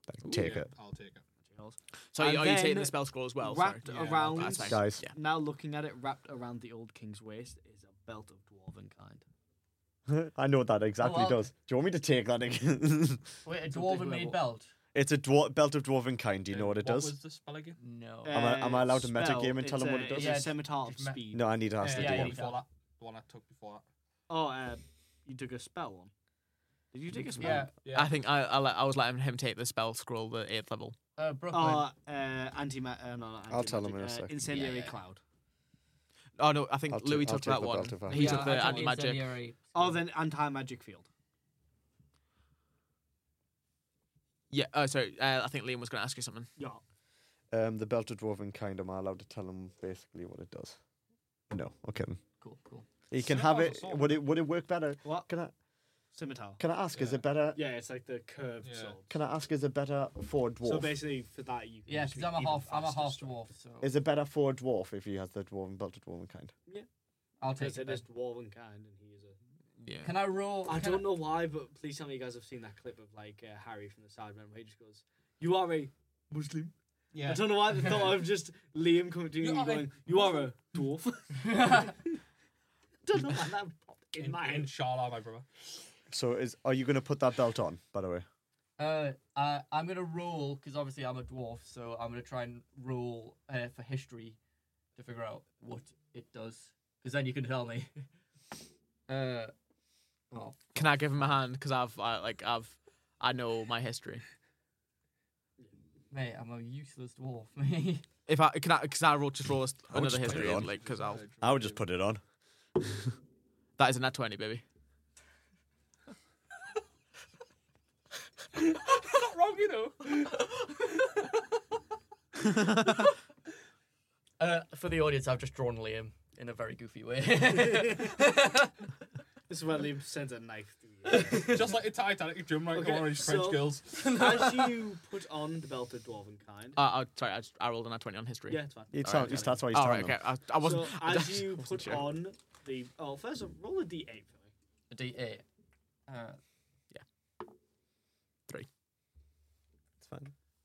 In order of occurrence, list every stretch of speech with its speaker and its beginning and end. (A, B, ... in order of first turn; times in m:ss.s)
0:00.1-0:00.7 A
0:00.2-0:00.5 B
0:00.3-0:01.3 C
0:01.4-0:09.2 D
0:02.1-0:05.1 B
0:03.8-0:04.5 C
0:04.7-0:05.0 A
0:10.1-0:13.3 A
0:11.0-0:11.5 E
0:13.4-0:14.7 E
0:13.8-0:14.4 D
0:14.9-0:17.2 A
0:16.5-0:17.8 C
0:17.8-0:18.4 E
0:18.2-0:21.5 D
0:18.3-0:20.4 A
0:20.1-0:21.2 E
0:21.3-0:22.4 A
0:21.8-0:23.8 C
0:21.8-0:22.6 E
0:24.3-0:26.1 D
0:26.9-0:27.7 D
0:27.4-0:27.6 A
0:27.4-0:27.7 E
0:27.8-0:28.2 C
0:27.9-0:31.0 B
0:31.2-0:31.9 E
0:31.5-0:35.2 D
0:33.5-0:34.4 A
0:34.5-0:35.0 E
0:36.4-0:39.3 B
0:36.9-0:38.4 A
0:38.1-0:40.0 E
0:38.2-0:39.0 D
0:39.7-0:41.1 D
0:44.5-0:46.5 B
0:46.6-0:46.8 D
0:47.5-0:50.8 A
0:51.5-0:52.2 A
0:52.4-0:52.9 E
0:53.1-0:55.5 A
0:53.2-0:54.3 C
0:55.0-0:55.3 D
0:56.1-0:56.6 D
0:56.6-0:57.6 A
0:56.9-0:57.2 C
0:57.5-0:59.1 D
0:58.6-0:59.0 C
0:59.1-1:01.0 A
1:00.6-1:03.4 D
1:01.9-1:03.9 E
1:03.8-1:06.5 A
1:07.4-1:08.0 E
1:07.5-1:09.4 D
1:09.8-1:10.2 B
1:10.0-1:11.1 E
1:10.7-1:22.2 D
1:17.1-1:18.0 C
1:19.4-1:20.6 C
1:21.6-1:21.9 E
1:23.0-1:24.7 D
1:24.2-1:25.5 C
1:26.1-1:28.3 A
1:28.8-1:34.4 E
1:35.0-1:38.0 E
1:39.1-1:39.5 E
1:40.3-1:40.8 E
1:40.7-1:44.2 B
1:46.1-1:48.0 E
1:48.3-1:51.2 B
1:49.9-1:50.7 A
1:50.1-1:51.8 C
1:51.4-1:52.2 A
1:53.8-1:54.6 B
1:58.6-2:00.3 C
2:04.4-2:08.7 E
2:07.6-2:08.2 D
2:09.5-2:11.8 D
2:11.1-2:11.4 E
2:11.4-2:14.1 C
2:12.7-2:16.8 D
2:13.9-2:14.8 E
2:16.8-2:22.1 B
2:18.5-2:19.6 D
2:18.9-2:20.2 A
2:20.6-2:24.5 D
2:24.9-2:25.4 E
2:26.1-2:26.4 E
2:30.0-2:30.3 A